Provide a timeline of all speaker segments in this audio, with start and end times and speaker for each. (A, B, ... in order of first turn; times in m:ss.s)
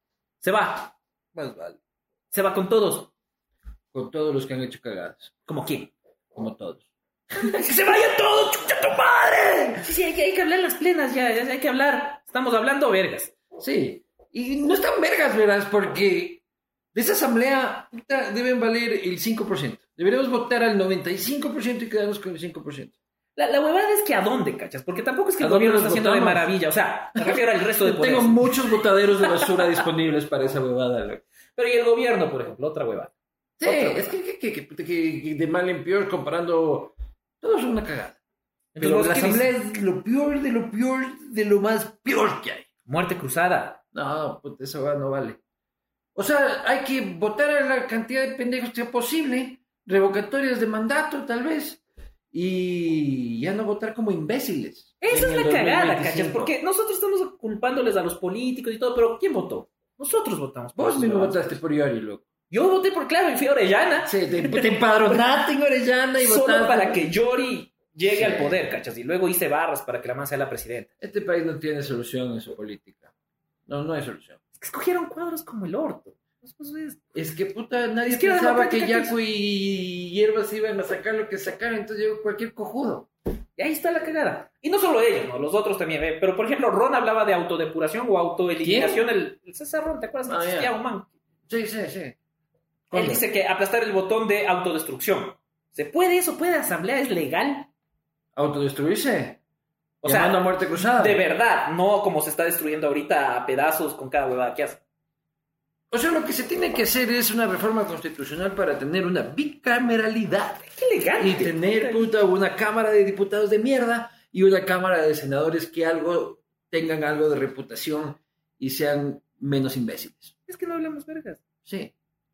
0:00.4-0:01.0 A
0:01.3-0:01.8 B
0:02.3-0:03.1 A
0:03.9-0:05.3 B
0:05.5-0:05.9 A
0:06.4-0:06.9 B
0:07.4-0:09.0 A
0:09.0-0:09.8 B
0:09.8-0:13.4 A
0:13.6-0:16.4 B
0:16.9-0:23.0 B
0:23.4-0:29.8 A
0:25.4-0:26.5 B
0:27.2-0:31.2 B
0:31.6-0:34.1 A
0:33.6-0:38.2 B
0:38.8-0:39.5 A
0:38.8-0:42.7 B
0:42.9-0:43.8 A
0:43.9-0:45.4 B
0:46.2-0:56.6 B
0:55.0-1:01.6 A
1:00.8-1:02.2 B
1:02.5-1:04.8 A
1:04.0-1:07.1 B
1:06.2-1:10.9 A
1:08.1-1:08.7 B
1:11.0-1:13.1 B
1:13.7-1:14.4 B
1:14.6-1:17.0 A
1:17.2-1:23.1 B
1:18.1-1:19.2 A
1:23.6-1:31.1 A
1:28.6-1:29.1 B
1:30.3-1:30.7 B
1:31.5-1:32.2 B
1:32.9-1:33.2 B
1:32.9-1:37.7 A
1:38.4-1:39.4 B
1:40.0-1:44.8 A
1:40.0-1:41.2 B
1:45.9-2:00.3 B
1:50.6-1:52.1 A
2:00.5-2:01.4 A
2:01.6-2:01.9 B